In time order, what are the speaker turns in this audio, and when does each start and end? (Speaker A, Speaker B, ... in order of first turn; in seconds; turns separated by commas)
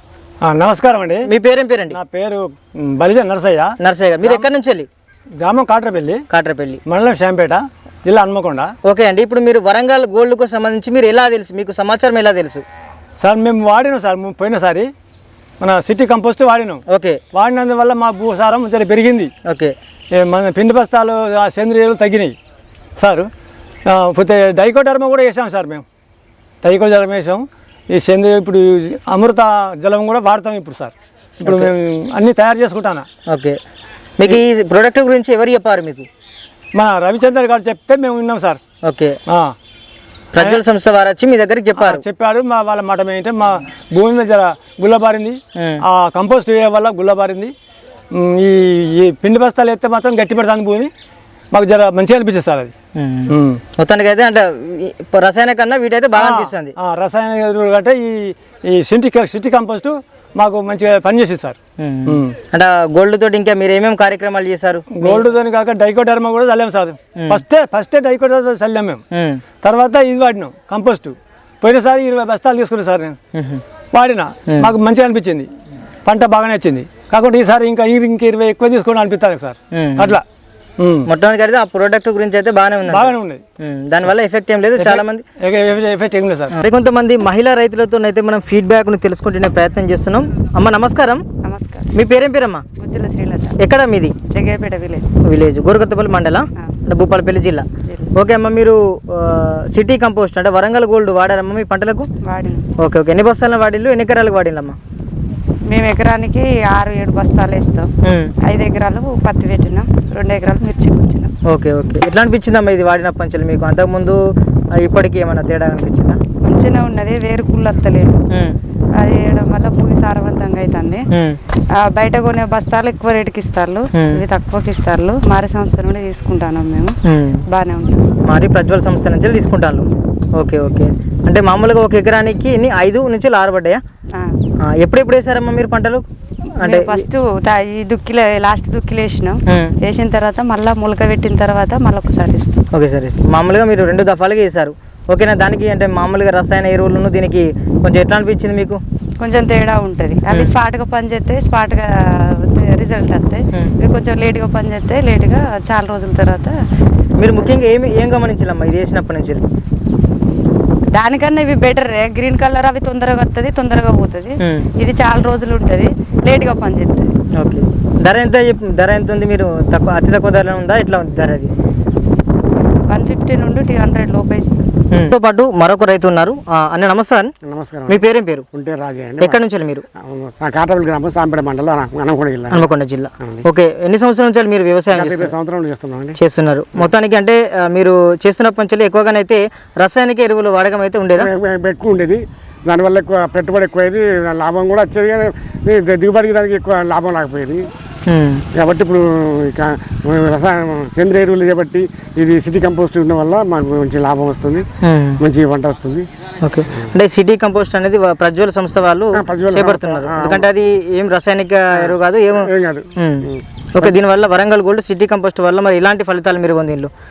Speaker A: 0.4-1.3, Speaker B: 1.2-2.0, Speaker A: 1.9-3.7, Speaker B: 3.8-4.9, Speaker A: 5.4-6.2, Speaker B: 6.3-6.8, Speaker A: 6.8-8.7, Speaker B: 8.8-12.6, Speaker A: 13.2-14.9, Speaker A: 15.6-16.8, Speaker B: 16.9-17.2, Speaker A: 17.3-19.3, Speaker B: 19.5-19.7, Speaker A: 20.1-22.3, Speaker A: 23.0-23.3, Speaker A: 23.9-25.8, Speaker A: 26.6-33.1, Speaker B: 31.4-31.7, Speaker B: 33.3-33.6, Speaker B: 34.2-36.1, Speaker A: 36.7-38.6, Speaker B: 38.9-39.2, Speaker A: 39.3-39.5, Speaker B: 40.3-42.0, Speaker A: 41.8-47.5, Speaker B: 45.5-45.8, Speaker A: 48.1-50.9, Speaker A: 51.5-52.7, Speaker B: 53.0-56.7, Speaker A: 53.3-53.6, Speaker A: 56.1-61.5, Speaker B: 61.8-65.2, Speaker A: 62.1-62.4, Speaker A: 64.9-69.0, Speaker B: 67.2-67.4, Speaker B: 69.1-69.4, Speaker A: 69.6-73.2, Speaker B: 73.3-73.6, Speaker A: 73.9-75.5, Speaker A: 76.0-80.2, Speaker B: 79.7-80.2, Speaker A: 80.8-81.1, Speaker B: 81.0-85.2, Speaker A: 82.9-83.4, Speaker A: 84.8-86.5, Speaker B: 86.6-91.2, Speaker C: 91.4-91.9, Speaker B: 91.9-92.6, Speaker C: 92.8-93.6, Speaker B: 93.6-94.1, Speaker C: 94.3-95.1, Speaker B: 95.2-102.1, Speaker C: 97.9-98.1, Speaker C: 102.2-102.7, Speaker B: 102.8-104.8, Speaker C: 105.7-107.9, Speaker B: 108.0-108.3, Speaker C: 108.5-111.3, Speaker B: 111.5-116.2, Speaker C: 116.4-118.2, Speaker B: 118.3-118.5, Speaker C: 119.0-121.1, Speaker B: 121.1-121.4, Speaker C: 121.8-128.1, Speaker B: 123.9-124.2, Speaker B: 127.0-127.4, Speaker B: 128.2-133.8, Speaker B: 134.6-136.0, Speaker B: 136.6-137.0, Speaker C: 136.6-142.6, Speaker B: 139.5-139.7, Speaker B: 142.7-148.8, Speaker C: 149.2-156.5, Speaker B: 150.3-150.5, Speaker B: 157.2-159.4, Speaker C: 157.2-157.6, Speaker C: 160.9-167.1, Speaker B: 164.4-164.7, Speaker B: 167.4-171.5, Speaker C: 172.9-174.7, Speaker B: 174.9-177.3, Speaker D: 177.4-178.0, Speaker B: 177.9-178.4, Speaker D: 178.5-179.4, Speaker B: 179.2-179.8, Speaker D: 180.0-182.7, Speaker B: 182.5-185.3, Speaker D: 184.9-186.2, Speaker B: 186.2-191.3, Speaker D: 191.2-197.7, Speaker B: 198.1-198.4, Speaker D: 198.5-204.7, Speaker B: 204.8-205.2, Speaker D: 205.2-206.1, Speaker B: 206.4-216.9, Speaker D: 209.2-210.4, Speaker D: 211.8-214.0